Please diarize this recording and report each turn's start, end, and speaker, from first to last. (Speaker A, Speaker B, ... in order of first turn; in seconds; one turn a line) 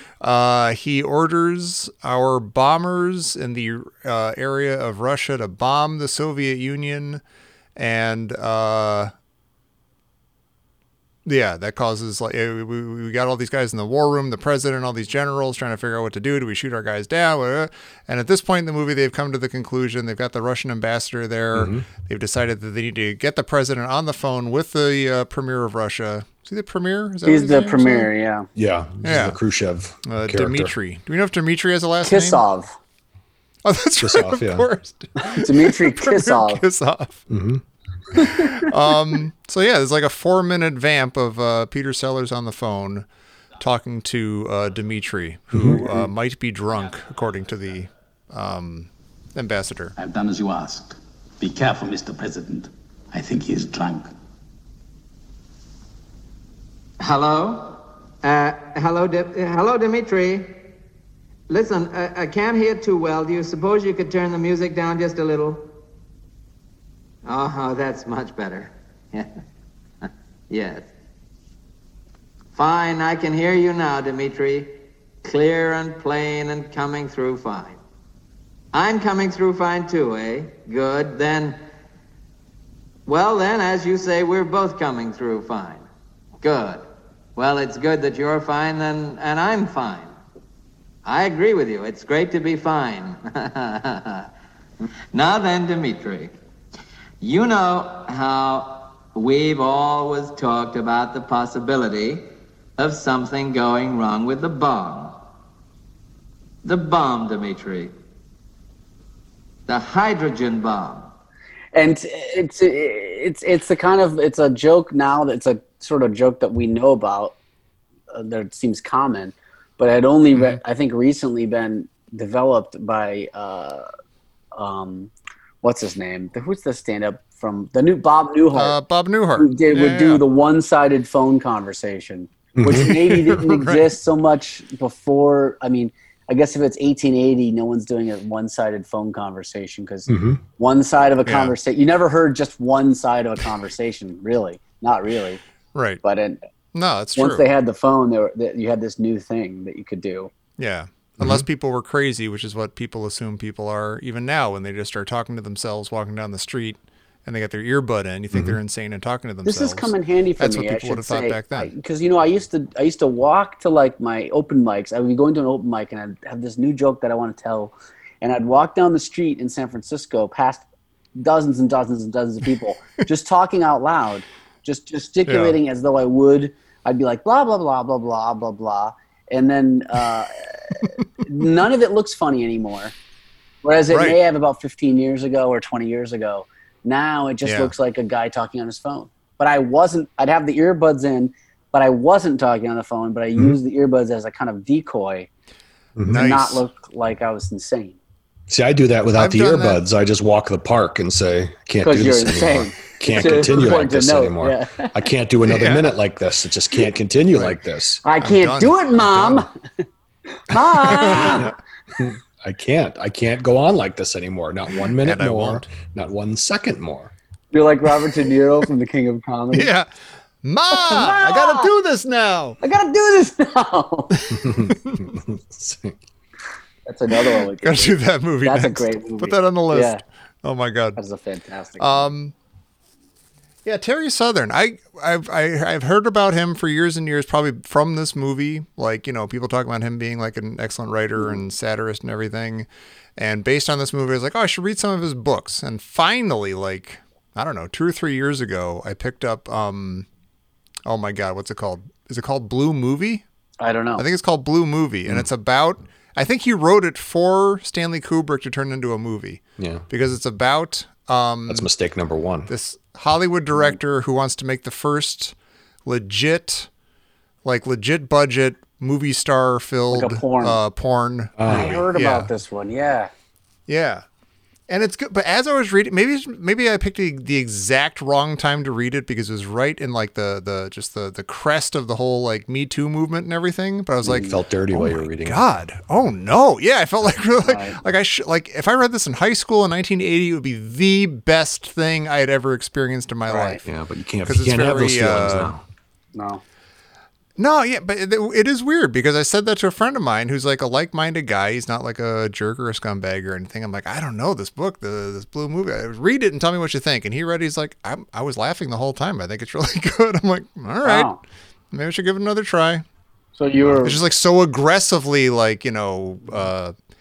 Speaker A: 0.2-7.2
Speaker A: 7.8-9.1
Speaker A: 11.2-28.1
Speaker B: 21.5-21.9
Speaker C: 27.2-28.4
Speaker B: 28.6-30.7
Speaker A: 29.0-29.4
Speaker A: 30.1-32.4
Speaker C: 32.0-32.7
Speaker A: 33.6-37.3
Speaker B: 34.0-34.7
Speaker C: 35.2-36.6
Speaker B: 37.3-37.6
Speaker A: 38.1-43.0
Speaker C: 38.2-38.4
Speaker A: 43.6-49.9
Speaker B: 45.5-46.0
Speaker D: 50.0-54.1
Speaker E: 57.0-60.6
Speaker E: 61.5-65.7
Speaker E: 67.2-69.3
Speaker E: 70.5-70.9
Speaker E: 72.5-77.8
Speaker E: 78.7-81.6
Speaker E: 83.0-85.8
Speaker E: 86.4-90.1
Speaker E: 91.0-94.3
Speaker E: 95.1-96.3
Speaker E: 97.2-105.2
Speaker E: 106.6-107.9
Speaker E: 109.7-111.1
Speaker C: 111.7-117.3
Speaker C: 118.1-123.9
Speaker C: 124.5-128.8
Speaker A: 128.5-130.2
Speaker C: 129.3-145.4
Speaker B: 132.6-132.9
Speaker A: 132.7-133.9
Speaker B: 140.1-140.4
Speaker A: 141.2-141.5
Speaker A: 145.7-146.0
Speaker C: 146.0-146.4
Speaker A: 146.7-147.4
Speaker C: 147.2-150.3
Speaker A: 150.6-161.7
Speaker B: 151.2-151.4
Speaker B: 158.3-158.6
Speaker C: 159.4-170.6
Speaker C: 171.2-182.9
Speaker A: 175.3-175.6
Speaker C: 183.6-195.3
Speaker A: 183.9-184.2
Speaker A: 187.4-187.7
Speaker A: 196.1-196.6
Speaker C: 196.1-198.0
Speaker B: 198.5-208.0
Speaker A: 199.2-199.8
Speaker C: 201.8-204.9
Speaker A: 205.4-205.9
Speaker C: 208.0-209.5
Speaker A: 208.2-209.5
Speaker C: 210.5-211.5
Speaker A: 210.6-211.5
Speaker B: 211.2-217.1
Speaker A: 215.0-215.7
Speaker C: 217.5-219.7
Speaker A: 219.5-219.9
Speaker A: 220.4-222.6
Speaker C: 220.7-221.7
Speaker C: 222.6-224.2
Speaker A: 224.2-225.1
Speaker B: 224.3-226.0
Speaker C: 226.8-230.0
Speaker A: 227.3-231.0
Speaker C: 230.9-232.1
Speaker A: 231.8-232.3
Speaker A: 233.6-242.7
Speaker A: 243.2-250.1
Speaker A: 250.8-253.2
Speaker C: 253.6-254.0
Speaker A: 254.0-261.7
Speaker B: 259.6-259.8
Speaker B: 261.5-262.5
Speaker A: 262.5-265.3
Speaker A: 265.9-266.7
Speaker A: 267.4-272.3
Speaker C: 269.9-270.6
Speaker B: 271.4-271.8
Speaker C: 271.4-273.1
Speaker A: 273.7-274.0
Speaker A: 274.7-293.6
Speaker B: 284.1-285.4
Speaker C: 287.4-287.8
Speaker C: 293.3-293.6
Speaker B: 293.6-295.6
Speaker A: 294.2-295.5
Speaker C: 296.1-296.4
Speaker A: 297.4-311.1
Speaker C: 310.8-311.2
Speaker A: 311.7-312.8
Speaker C: 313.4-314.0
Speaker A: 313.7-316.7